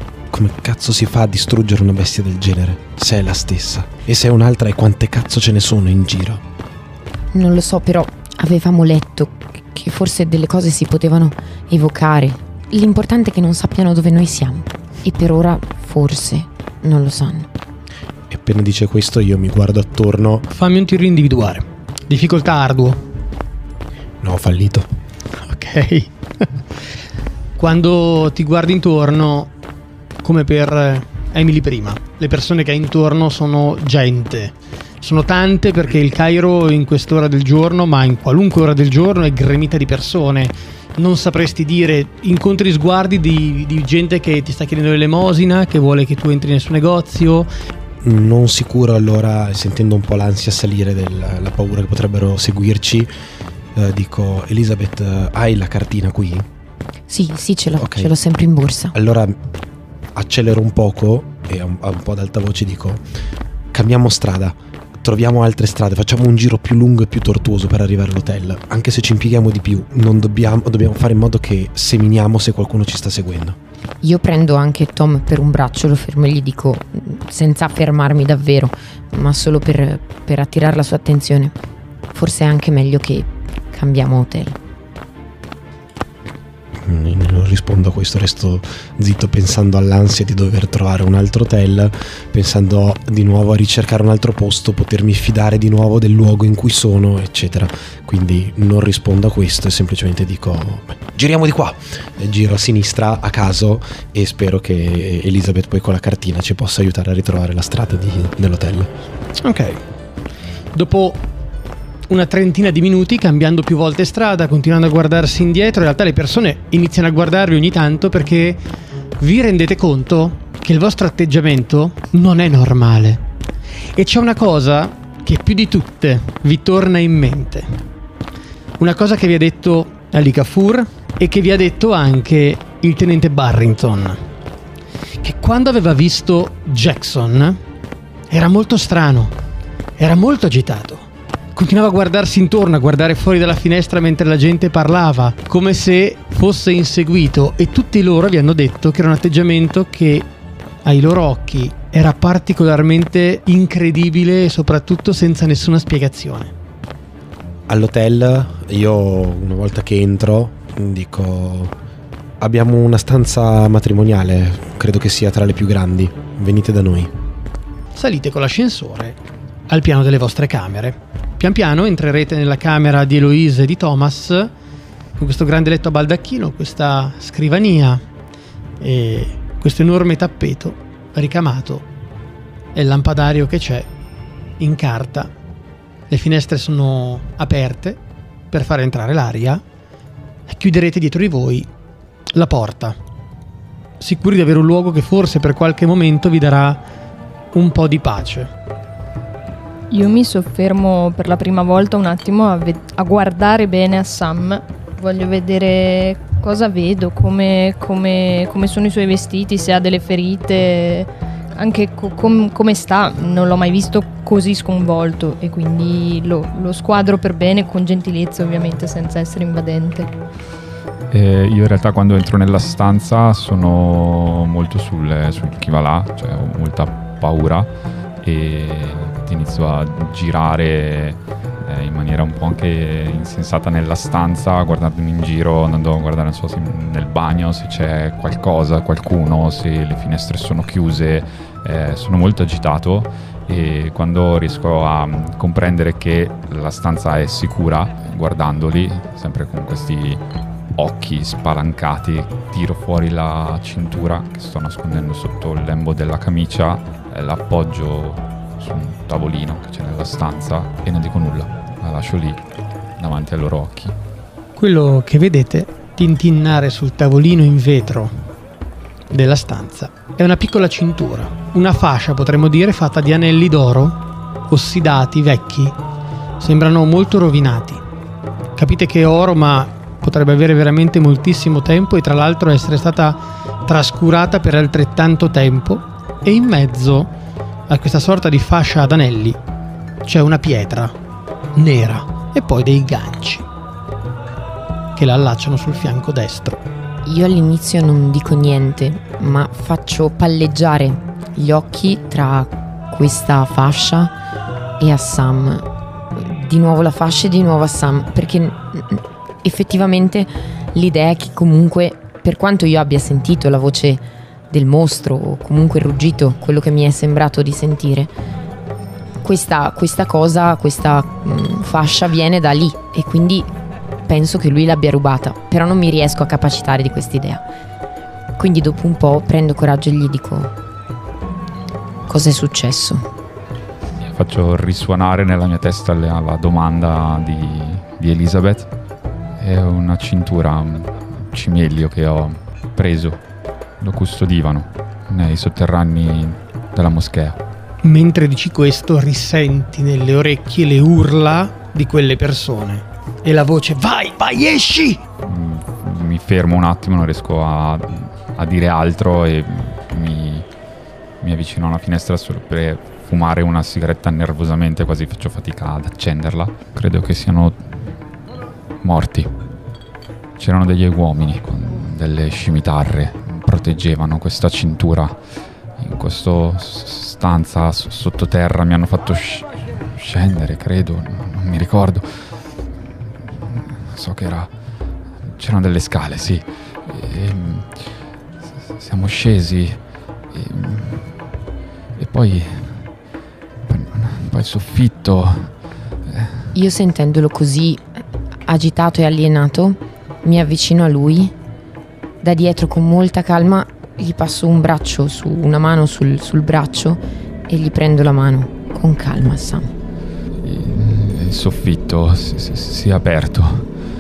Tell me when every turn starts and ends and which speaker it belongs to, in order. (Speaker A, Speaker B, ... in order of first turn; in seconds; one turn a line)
Speaker A: 0.3-6.4
Speaker B: 7.3-17.5
Speaker A: 18.3-20.5
Speaker C: 20.5-23.0
Speaker A: 24.2-24.9
Speaker C: 25.4-26.6
Speaker C: 27.6-29.5
Speaker C: 30.2-47.5
Speaker A: 48.0-53.1
Speaker A: 53.8-56.5
Speaker B: 57.1-59.0
Speaker A: 57.8-58.1
Speaker A: 59.0-59.4
Speaker A: 60.1-63.0
Speaker A: 63.7-73.6
Speaker B: 74.0-81.6
Speaker B: 82.1-84.6
Speaker A: 86.8-108.9
Speaker C: 109.4-109.8
Speaker C: 110.7-111.2
Speaker C: 112.1-118.6
Speaker C: 119.2-123.2
Speaker C: 124.0-127.7
Speaker C: 128.8-134.2
Speaker C: 135.2-137.6
Speaker C: 138.3-139.3
Speaker C: 140.0-150.3
Speaker C: 150.8-156.5
Speaker A: 157.7-161.7
Speaker A: 162.4-167.1
Speaker C: 167.9-169.2
Speaker C: 169.7-174.5
Speaker C: 175.2-178.0
Speaker C: 178.8-181.9
Speaker C: 182.8-183.9
Speaker C: 184.6-185.3
Speaker C: 186.1-189.6
Speaker C: 190.5-191.7
Speaker C: 192.3-193.0
Speaker C: 194.0-196.8
Speaker C: 197.5-198.5
Speaker D: 199.9-220.1
Speaker E: 221.1-227.7
Speaker E: 228.2-250.2
Speaker E: 250.8-262.4
Speaker E: 263.0-263.9
Speaker C: 264.6-268.3
Speaker C: 269.1-275.8
Speaker C: 276.4-277.8
Speaker C: 278.6-287.1
Speaker C: 287.7-289.4
Speaker C: 290.1-291.0
Speaker C: 291.6-293.5
Speaker C: 294.9-296.6
Speaker B: 297.1-304.1
Speaker B: 304.8-318.1
Speaker B: 319.2-323.5
Speaker B: 324.1-327.4
Speaker B: 328.4-330.5
Speaker B: 332.1-333.1
Speaker E: 334.0-338.7
Speaker E: 339.4-343.2
Speaker E: 343.8-347.4
Speaker C: 347.8-355.0
Speaker E: 355.2-360.5
Speaker E: 361.2-367.6
Speaker E: 368.8-369.3
Speaker E: 370.4-375.2
Speaker E: 375.8-382.3
Speaker E: 383.3-384.5
Speaker E: 385.3-387.9
Speaker E: 388.8-389.8
Speaker E: 390.3-391.2
Speaker E: 392.0-392.9
Speaker E: 393.7-395.5
Speaker E: 396.1-396.5
Speaker B: 396.6-397.8
Speaker B: 398.5-401.4
Speaker B: 402.2-409.7
Speaker E: 410.4-413.7